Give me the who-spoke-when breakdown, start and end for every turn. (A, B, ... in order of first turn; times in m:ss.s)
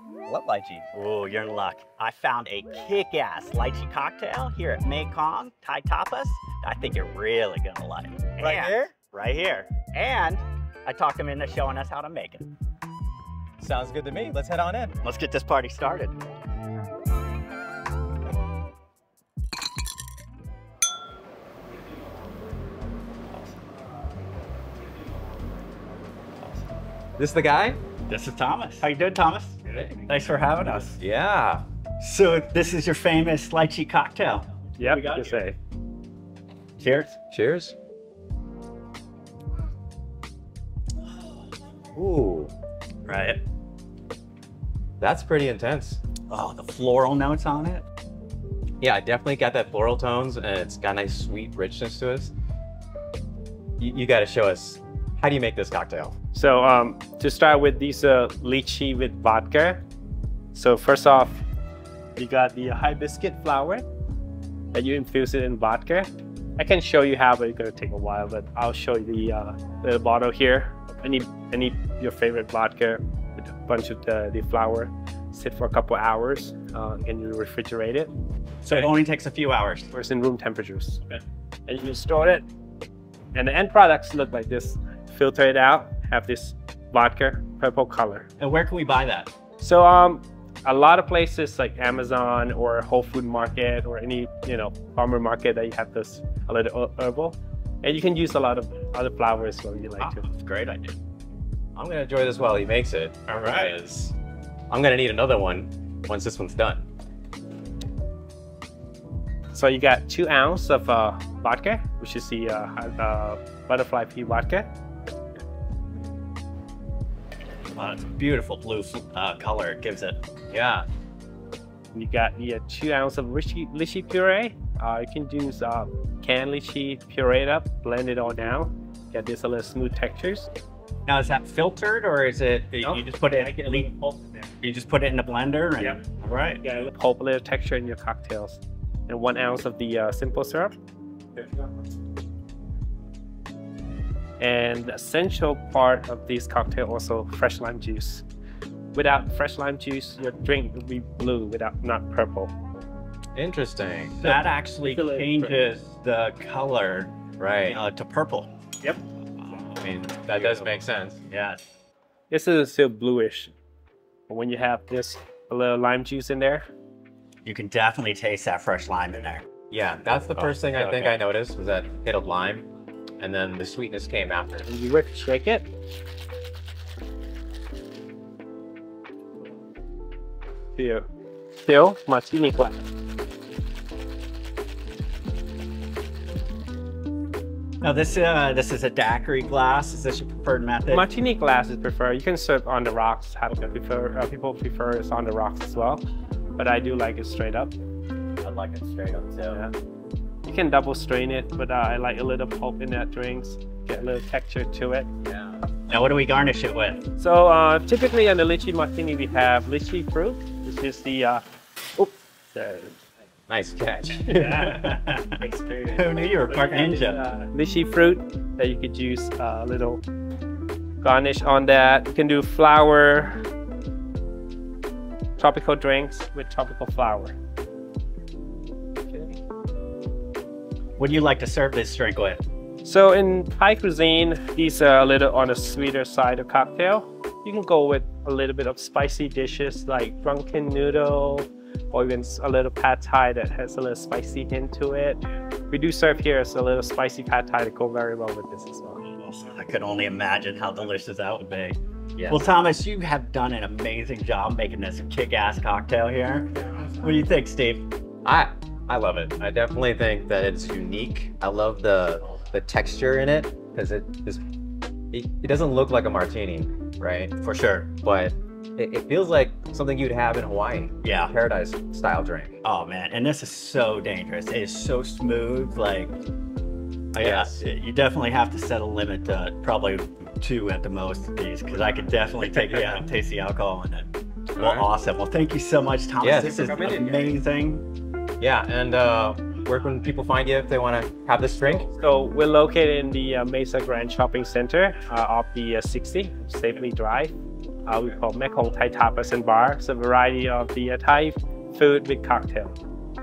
0:00.3-0:00.8 A
0:00.9-0:12.5 B
0:08.4-0:08.9 A
0:13.6-0:14.9 A
0:15.0-0:16.2 B
0:27.2-0:27.8 A
0:28.1-0:31.0 B
0:31.0-0:31.6 A
0:32.0-0:35.5 B
0:34.8-0:35.6 C
0:36.8-0:37.2 B
0:37.3-0:37.7 A
0:42.0-0:42.5 A
0:43.0-0:43.4 B
0:45.0-0:46.0 A
0:46.3-0:47.8 B
0:48.8-0:52.3 A
0:53.8-0:56.1 A
0:56.3-0:59.8 C
1:00.5-1:01.4 C
1:02.2-1:03.8 C
1:04.7-1:18.1 C
1:18.6-1:19.9 B
1:19.9-1:22.4 C
1:23.3-1:28.3 C
1:28.4-1:29.3 B
1:29.6-1:40.2 C
1:40.0-1:41.0 B
1:41.8-1:44.1 A
1:43.3-1:43.7 B
1:44.7-1:46.8 A
1:49.5-1:54.7 C
1:57.8-2:00.2 B
2:00.5-2:00.8 A
2:01.9-2:10.5 C
2:11.0-2:13.9 B
2:12.8-2:14.5 C
2:14.6-2:16.6 B
2:16.6-2:20.8 C
2:24.4-2:28.2 C
2:28.9-2:32.5 C
2:33.3-2:34.4 A
2:34.2-2:38.5 B
2:34.8-2:35.6 C
2:37.4-2:37.8 A
2:39.8-2:41.2 A
2:40.3-2:40.8 B
2:41.3-2:41.6 B
2:42.3-2:43.5 C
2:44.3-2:46.7 C
2:47.4-2:49.4 B
2:49.7-2:52.6 A
2:50.3-2:51.2 B
2:53.2-2:54.7 A
2:54.6-2:55.6 C
3:00.8-3:01.1 C
3:01.6-3:02.8 C
3:07.8-3:11.1 B
3:10.9-3:16.0 C
3:16.6-3:17.7 C
3:18.4-3:19.6 A
3:20.4-3:25.1 C
3:25.2-3:25.6 A
3:25.9-3:27.0 B
3:27.2-3:31.4 C
3:32.0-3:33.0 C
3:33.5-3:34.6 A
3:34.2-3:40.0 C
3:34.3-3:35.3 B
3:35.9-3:37.2 B
3:41.0-3:43.4 C
3:45.4-3:47.3 C
3:51.0-3:52.4 B
3:52.8-4:09.0 C
4:09.1-4:11.8 B
4:12.2-4:12.5 A
4:12.3-4:17.8 B
4:18.2-4:24.4 A
4:25.1-4:27.3 A
4:27.4-4:27.9 B
4:28.0-4:32.6 A
4:31.0-4:31.3 B
4:32.6-4:36.1 B
4:37.1-4:47.8 B
4:37.2-4:37.6 A
4:42.4-4:43.0 A
4:44.6-4:44.9 A
4:46.2-4:47.3 A
4:48.4-4:51.9 A
4:51.9-4:57.3 C
4:57.8-5:02.8 C